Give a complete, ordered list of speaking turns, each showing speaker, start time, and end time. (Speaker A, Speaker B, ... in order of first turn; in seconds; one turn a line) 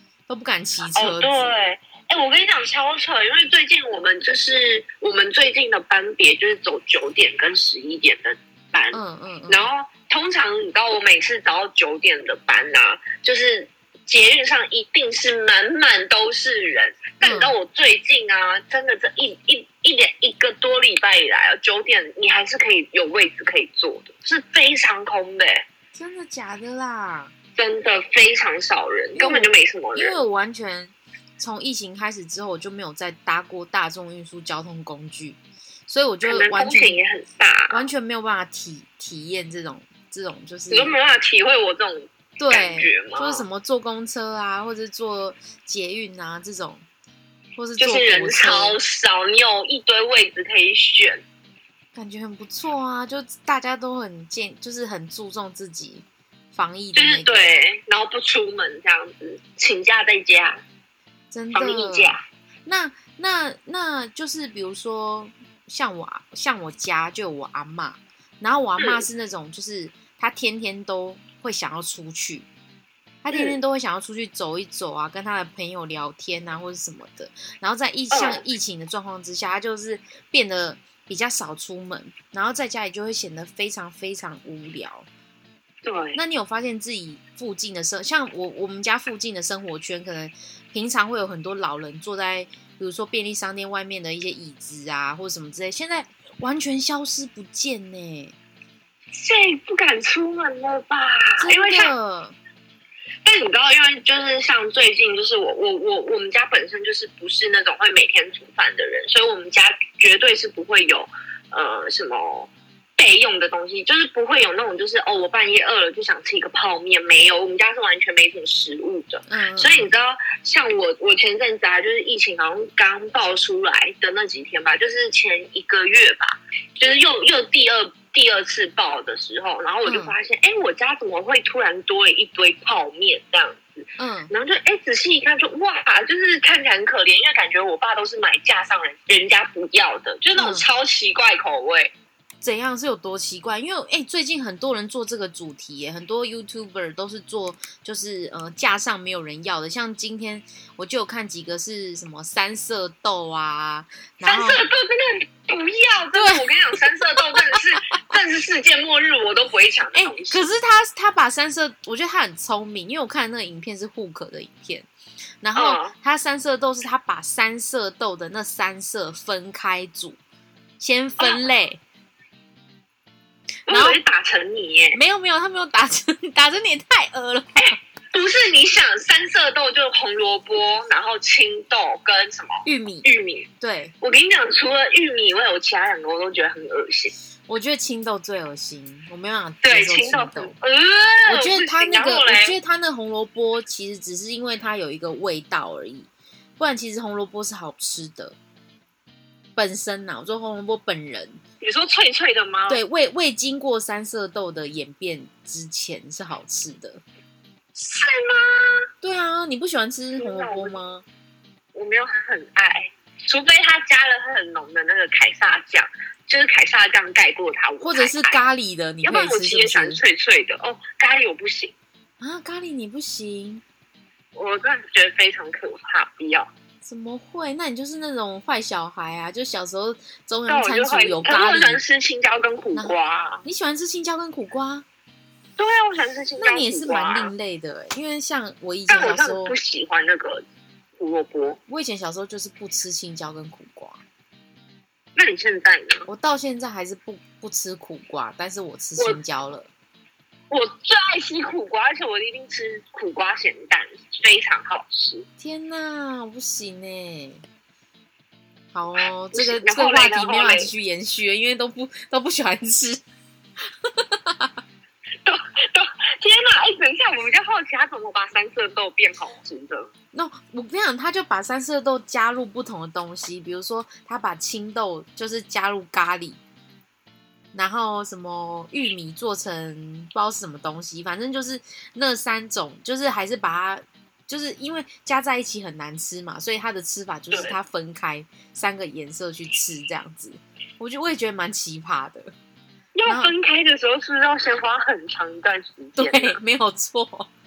Speaker A: 0.3-1.5
Speaker B: 0.9-25.6
Speaker A: 8.9-9.7
Speaker A: 17.2-17.5
Speaker A: 25.9-27.3
Speaker B: 27.6-30.2
Speaker A: 29.1-37.0
Speaker B: 36.2-37.8
Speaker A: 37.7-41.0
Speaker B: 40.7-43.5
Speaker A: 42.4-46.9
Speaker A: 47.6-48.8
Speaker B: 47.8-51.2
Speaker A: 52.0-57.5
Speaker B: 57.0-60.6
Speaker A: 61.3-72.5
Speaker B: 61.5-62.2
Speaker A: 73.2-85.1
Speaker B: 73.3-73.6
Speaker B: 78.1-78.4
Speaker B: 85.8-86.2
Speaker A: 86.2-98.3
Speaker B: 99.1-101.9
Speaker A: 101.4-102.4
Speaker B: 103.2-141.9
Speaker A: 119.3-119.9
Speaker A: 129.9-130.2
Speaker A: 134.0-134.3
Speaker A: 140.3-140.7
Speaker A: 142.4-154.7
Speaker B: 154.2-160.5
Speaker A: 156.2-156.5
Speaker A: 159.9-164.9
Speaker A: 165.4-170.2
Speaker B: 165.6-165.9
Speaker A: 170.8-171.8
Speaker B: 173.7-175.0
Speaker A: 173.7-174.0
Speaker A: 174.9-177.8
Speaker B: 178.1-183.5
Speaker A: 182.7-183.1
Speaker A: 183.6-183.9
Speaker B: 184.0-187.1
Speaker A: 187.5-190.6
Speaker B: 189.6-192.6
Speaker A: 191.3-198.3
Speaker A: 199.6-201.4
Speaker B: 201.6-202.8
Speaker A: 202.7-207.0
Speaker B: 207.8-208.8
Speaker A: 209.0-211.1
Speaker B: 210.2-210.8
Speaker B: 211.7-218.4
Speaker A: 217.8-220.0
Speaker B: 219.0-221.7
Speaker A: 222.2-223.6
Speaker B: 224.3-226.5
Speaker A: 226.8-231.8
Speaker B: 230.5-233.4
Speaker A: 232.7-234.8
Speaker B: 235.6-237.3
Speaker A: 236.4-239.6
Speaker B: 238.9-240.4
Speaker B: 241.0-241.6
Speaker A: 241.7-244.0
Speaker B: 245.2-246.1
Speaker A: 246.1-249.7
Speaker B: 250.5-255.3
Speaker A: 255.4-257.4
Speaker A: 258.7-263.0
Speaker B: 259.3-260.7
Speaker A: 263.8-264.6
Speaker B: 265.2-269.9
Speaker A: 270.1-276.4
Speaker A: 277.5-292.3
Speaker B: 292.9-296.4
Speaker A: 293.1-293.3
Speaker A: 296.0-297.3